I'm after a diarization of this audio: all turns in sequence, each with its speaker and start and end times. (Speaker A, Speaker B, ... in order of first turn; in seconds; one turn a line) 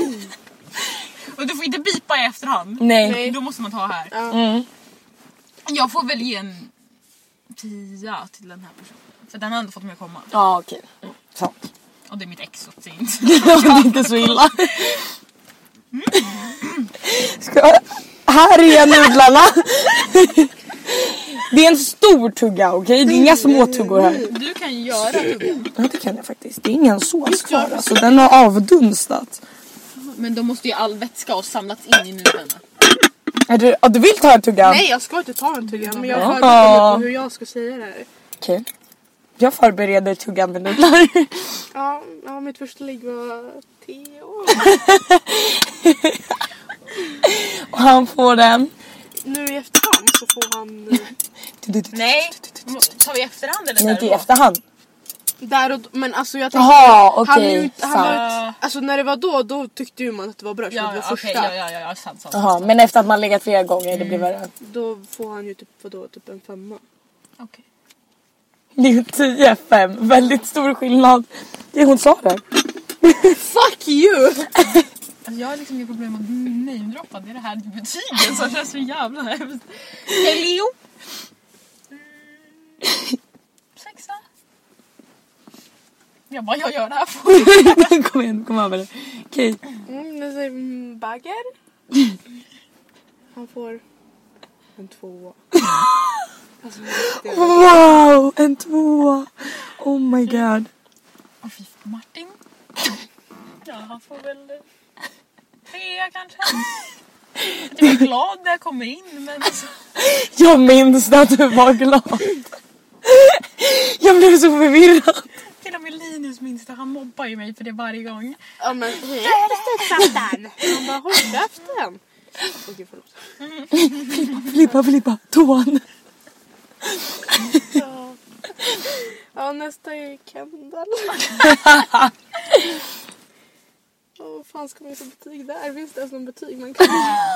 Speaker A: 1.3-4.1
Speaker B: 2.8-3.3
Speaker C: 3.0-3.4
Speaker C: 4.1-4.4
Speaker B: 4.3-4.7
Speaker A: 5.6-6.7
Speaker A: 7.5-10.3
Speaker B: 10.3-11.6
Speaker A: 12.1-15.0
Speaker B: 13.2-15.0
Speaker A: 15.9-16.8
Speaker B: 17.0-24.3
Speaker C: 23.1-24.3
Speaker A: 24.2-25.7
Speaker B: 25.7-29.4
Speaker C: 27.2-28.1
Speaker A: 30.0-32.6
Speaker B: 33.5-34.8
Speaker C: 34.6-38.1
Speaker A: 35.7-36.7
Speaker B: 36.1-37.1
Speaker B: 38.4-38.6
Speaker B: 39.4-41.6
Speaker C: 41.7-44.7
Speaker B: 44.5-46.4
Speaker B: 47.2-48.7
Speaker C: 49.2-51.1
Speaker B: 51.6-52.5
Speaker A: 51.9-54.3
Speaker B: 53.8-54.6
Speaker C: 55.4-61.5
Speaker B: 56.5-58.2
Speaker A: 58.0-58.6
Speaker A: 60.7-62.7
Speaker B: 62.3-64.5
Speaker A: 63.9-64.3
Speaker C: 64.6-66.8
Speaker B: 68.8-72.4
Speaker B: 73.0-73.3
Speaker C: 73.3-74.5
Speaker A: 75.2-80.7
Speaker A: 83.8-84.2
Speaker A: 86.3-88.0
Speaker B: 87.3-89.6
Speaker C: 89.8-91.5
Speaker C: 93.3-93.8
Speaker C: 94.8-95.4
Speaker C: 96.6-97.8
Speaker B: 97.1-100.7
Speaker A: 101.4-102.4
Speaker A: 103.6-104.6
Speaker A: 105.7-106.8
Speaker A: 107.6-109.7
Speaker B: 110.0-112.3
Speaker B: 113.0-115.2
Speaker A: 115.6-118.4
Speaker C: 118.6-123.2
Speaker A: 119.2-120.2
Speaker A: 123.4-124.5
Speaker B: 123.8-125.8
Speaker C: 127.8-128.1
Speaker C: 129.3-131.6
Speaker B: 131.4-132.1
Speaker C: 134.2-137.2